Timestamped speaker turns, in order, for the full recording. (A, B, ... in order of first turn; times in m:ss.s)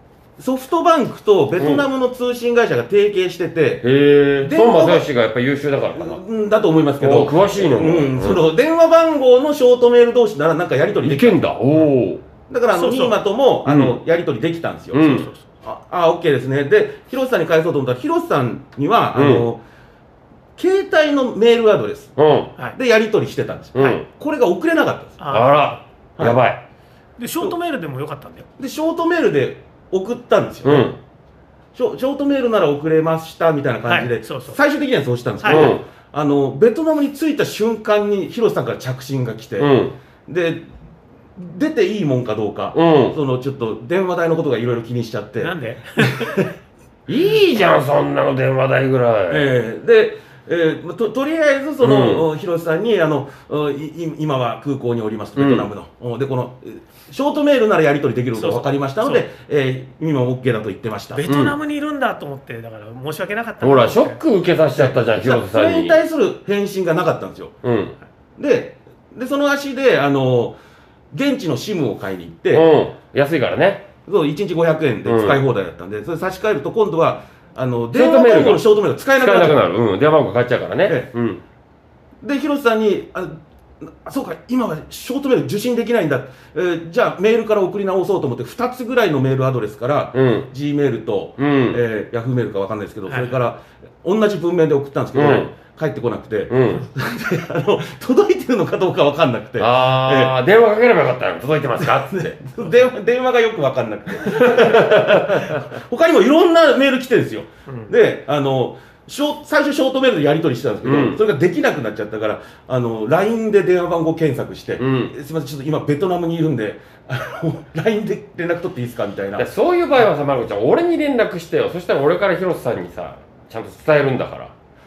0:00.4-0:03.9 A
0:01.6-0:01.9 B
0:03.8-0:06.2 B
0:04.4-0:05.1 A
0:06.0-0:11.5 A
0:07.0-0:08.4 B
0:11.0-0:12.2 B
0:12.5-0:19.6 A
0:12.7-0:13.2 C
0:13.6-0:14.0 B
0:14.9-0:15.3 B
0:15.0-0:15.4 C
0:19.1-0:19.5 B
0:20.6-0:22.2 A
0:22.2-0:22.5 B
0:22.7-0:25.2 A
0:23.7-0:24.1 B
0:25.2-0:25.8 C
0:25.3-0:26.6 B
0:27.2-0:28.5 C
0:28.6-0:30.9 A
0:30.6-0:31.0 B
0:31.8-0:39.8 A
0:33.9-0:34.6 C
0:35.4-0:35.8 C
0:35.4-0:35.8 B
0:39.6-0:40.0 B
0:40.3-0:40.7 A
0:41.4-0:46.5 A
0:42.7-0:43.2 B
0:45.4-0:46.4 C
0:47.1-0:49.5 B
0:49.3-1:01.2 A
0:51.8-0:52.3 B
0:55.4-0:55.7 B
0:58.4-0:59.2 C
1:01.1-1:04.2 C
1:01.3-1:01.6 B
1:03.6-1:06.0 B
1:04.8-1:07.6 A
1:07.6-1:08.0 B
1:08.4-1:10.6 A
1:11.1-1:12.6 A
1:12.5-1:13.9 B
1:14.1-1:19.6 A
1:15.0-1:15.4 B
1:17.9-1:18.6 B
1:19.2-1:21.4 B
1:22.2-1:40.4 A
1:30.1-1:30.5 B
1:31.4-1:31.8 B
1:33.1-1:33.4 C
1:35.2-1:35.5 B
1:36.5-1:36.9 B
1:39.6-1:42.4 B
1:41.8-1:59.5 A
1:44.3-1:45.6 B
1:50.8-1:51.2 B
1:54.8-1:55.1 B
1:59.4-2:04.5 B